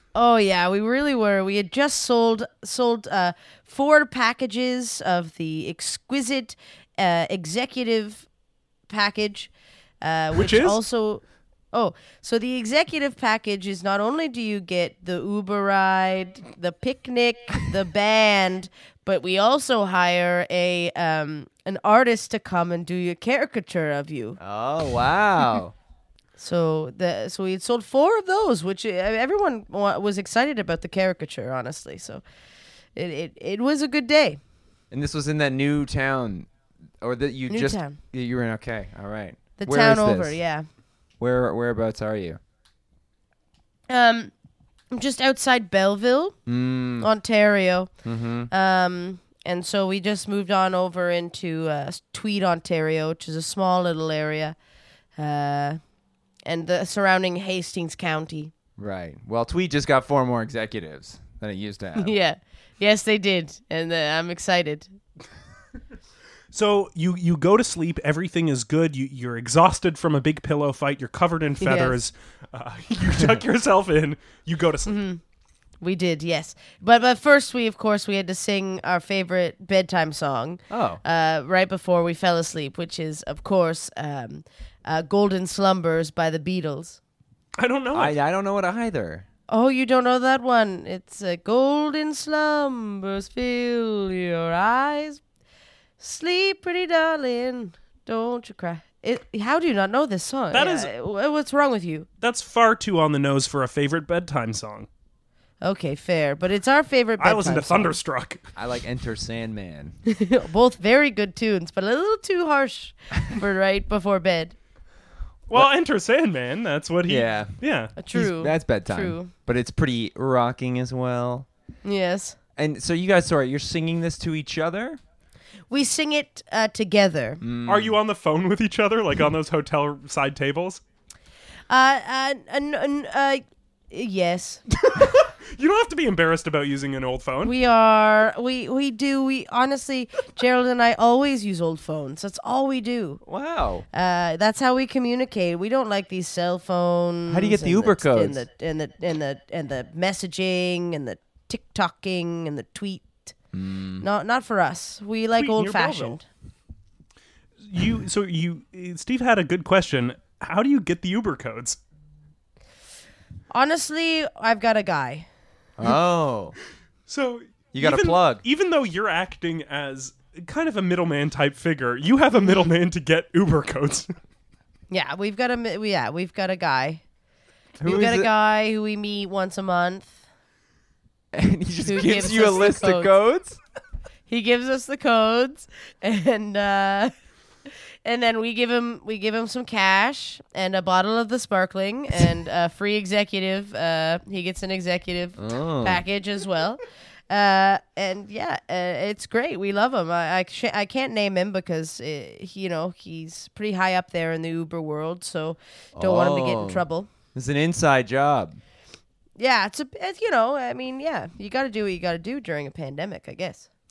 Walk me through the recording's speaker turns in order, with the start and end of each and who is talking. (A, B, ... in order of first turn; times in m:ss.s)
0:00.1-0:08.2 A
0:08.9-0:09.5 A
0:10.0-0:24.4 A
0:10.3-0:10.8 B
0:24.4-0:25.7 C
0:26.4-0:32.2 A
0:33.0-0:34.4 A
0:34.9-0:36.5 C
0:37.0-0:40.4 C
0:37.5-0:38.0 A
0:39.6-0:40.6 A
0:41.2-0:42.4 C
0:43.9-0:44.3 A
0:44.9-0:46.4 A
0:46.4-0:47.1 C
0:47.0-0:47.9 A
0:48.0-0:48.5 C
0:48.5-0:54.6 A
0:55.2-0:55.8 A
0:56.4-0:58.5 A
0:58.8-1:02.1 C
1:02.0-1:04.9 A
1:06.5-1:15.0 B
1:11.6-1:12.0 A
1:14.9-1:15.2 A
1:15.8-1:27.0 A
1:20.7-1:21.0 C
1:27.6-1:28.1 B
1:27.9-1:29.2 C
1:29.5-1:35.2 A
1:36.0-1:42.1 A
1:40.5-1:40.9 B
1:42.2-1:44.9 B
1:45.6-1:48.0 A
1:47.2-1:48.4 B
1:48.6-1:50.0 C
1:50.1-1:54.5 A
1:55.5-1:57.9 B
1:57.1-1:57.6 C
1:58.0-1:59.3 A
1:58.1-2:01.5 C
2:01.8-2:02.4 A
2:02.6-2:05.0 C
2:05.7-2:07.4 A
2:07.4-2:08.0 C
2:07.6-2:10.8 B
2:11.7-2:14.6 A
2:14.8-2:17.5 B
2:17.4-2:23.2 A
2:23.2-2:23.8 C
2:23.9-2:33.3 A
2:27.3-2:28.4 C
2:33.5-2:34.1 C
2:34.0-2:36.2 A
2:35.4-2:36.2 B
2:37.7-2:41.8 B
2:43.5-2:45.3 A
2:45.8-2:46.6 C
2:47.1-2:54.1 B
2:47.7-2:48.4 C
2:52.4-2:52.7 A
2:54.9-2:57.0 A
2:57.8-2:58.3 C
2:57.8-3:00.2 A
3:01.3-3:03.6 C
3:01.9-3:03.1 A
3:04.3-3:07.1 A
3:07.6-3:27.1 A
3:15.4-3:16.0 C
3:26.0-3:28.6 C
3:29.4-3:33.7 A